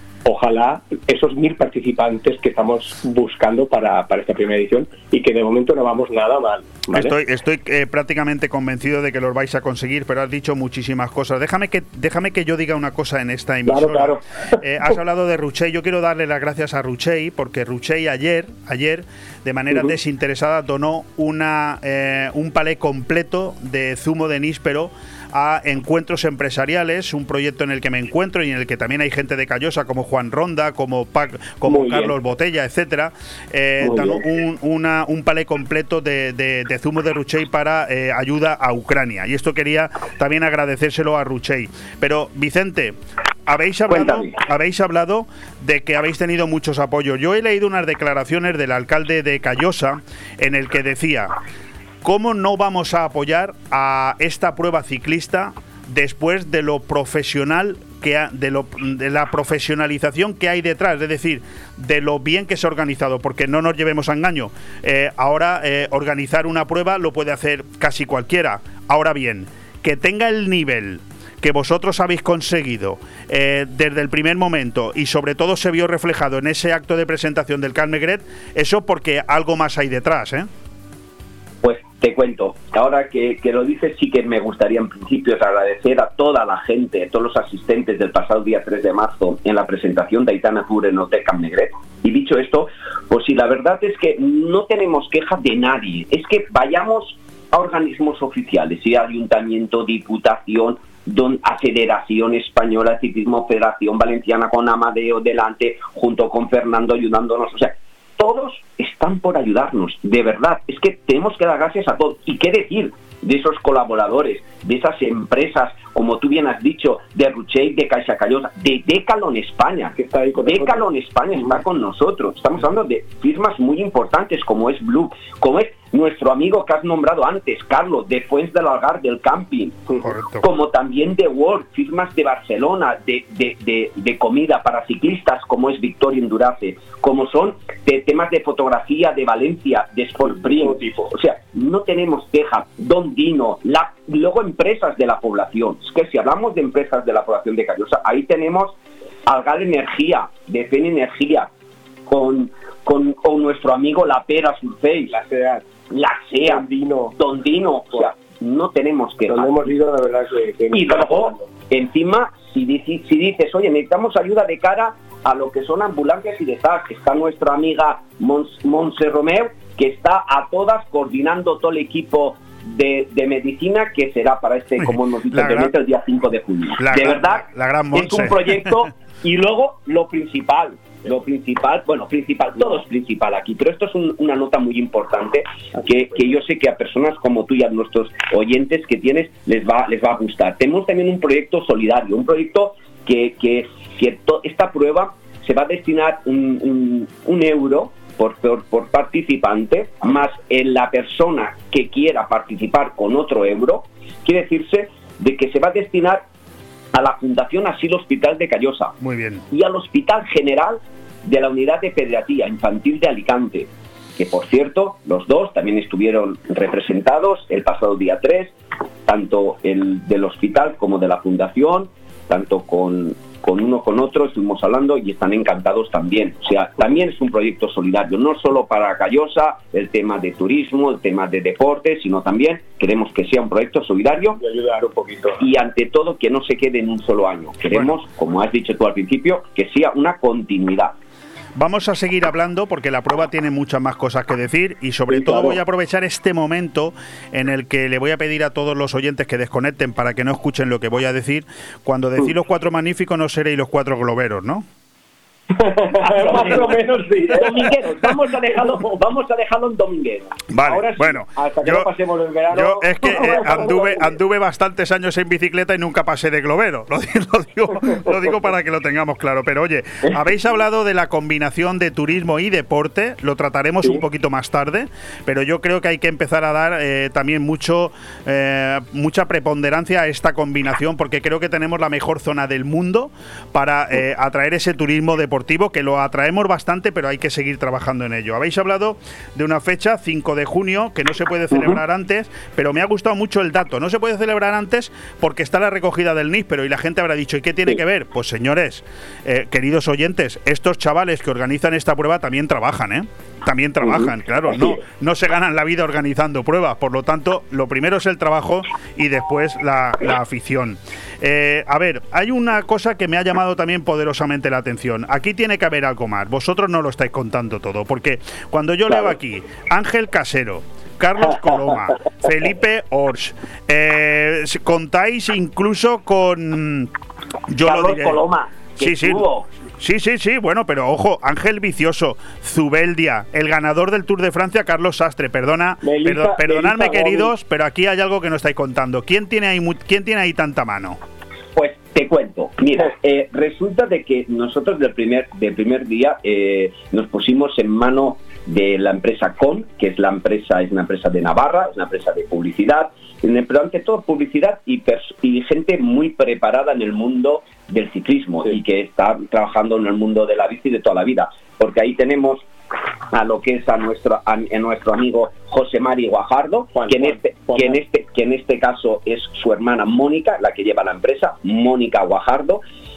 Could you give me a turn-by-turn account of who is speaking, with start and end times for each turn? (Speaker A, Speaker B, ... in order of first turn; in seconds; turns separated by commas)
Speaker A: 0.2-7.1, Speaker B: 6.9-51.3, Speaker A: 13.7-14.2, Speaker A: 31.6-32.1, Speaker A: 33.8-34.2, Speaker C: 43.9-44.3, Speaker B: 52.0-80.5, Speaker C: 81.6-151.5, Speaker A: 119.9-120.8, Speaker B: 130.0-130.4, Speaker A: 140.3-141.1, Speaker C: 152.1-155.2, Speaker A: 155.1-155.7, Speaker C: 155.9-159.6, Speaker A: 156.4-157.2, Speaker A: 159.3-161.4, Speaker C: 160.7-206.2, Speaker B: 174.8-175.7, Speaker B: 176.8-178.8, Speaker C: 206.9-208.9, Speaker B: 209.0-209.4, Speaker C: 209.5-218.6, Speaker C: 219.1-234.4, Speaker A: 234.3-235.5, Speaker C: 235.4-240.9, Speaker B: 237.7-238.0, Speaker B: 241.6-254.7, Speaker A: 245.1-245.6, Speaker A: 255.6-258.1, Speaker C: 256.1-260.5, Speaker B: 260.5-261.9, Speaker A: 260.6-264.1, Speaker B: 262.5-326.9, Speaker A: 304.5-304.8, Speaker B: 327.5-328.2, Speaker C: 327.6-329.5, Speaker B: 328.8-329.2, Speaker B: 329.8-341.0, Speaker A: 335.8-337.3, Speaker C: 341.6-362.5, Speaker C: 363.1-372.6, Speaker A: 366.7-367.8